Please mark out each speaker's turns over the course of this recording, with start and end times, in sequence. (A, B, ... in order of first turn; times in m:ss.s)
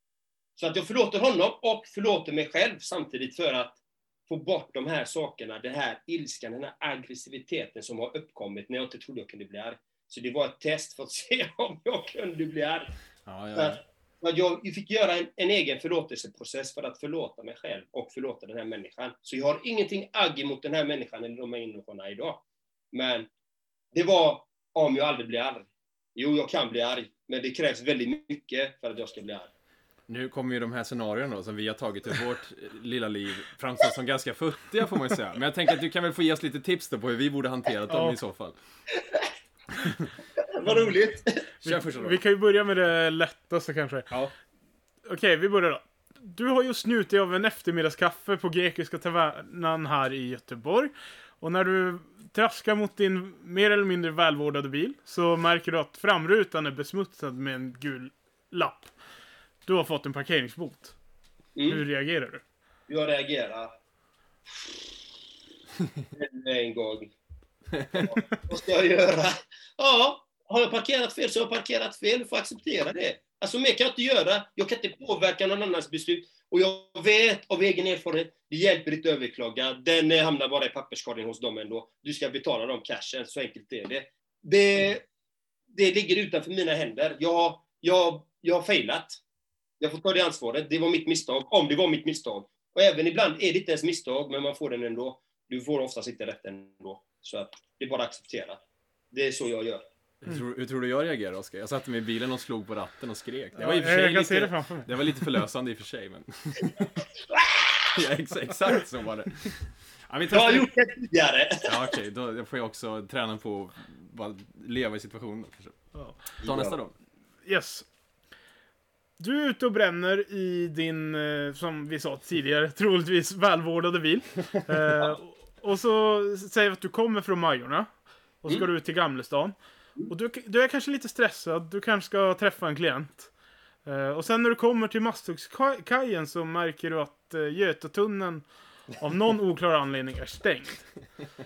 0:00.6-0:12.9 A
0:13.2-0:13.8 B
0:13.5-0:23.3 A
0:23.9-0:29.5 A
0:30.1-0:38.6 B
0:37.9-0:38.2 C
0:40.5-0:41.4 A
0:41.6-0:44.1 C
0:41.6-0:42.2 B
0:45.0-0:58.9 C
0:59.6-1:00.9 C
1:01.6-1:01.8 A
1:01.7-1:02.4 C
1:02.9-1:03.7 A
1:06.1-1:07.1 A
1:07.9-1:25.0 A
1:25.7-1:29.2 A
1:29.8-1:38.6 A
1:39.1-1:39.9 A
1:40.2-1:47.0 B
1:43.6-1:44.9 C
1:47.3-1:47.9 A
1:47.9-1:50.7 B
1:50.3-1:51.7 A
1:51.7-1:56.9 B
1:55.9-1:56.2 C
1:56.4-1:56.8 A
1:57.4-1:57.9 C
1:59.2-2:07.9 C
2:08.4-2:09.5 C
2:10.1-2:13.3 C
2:13.8-2:21.1 C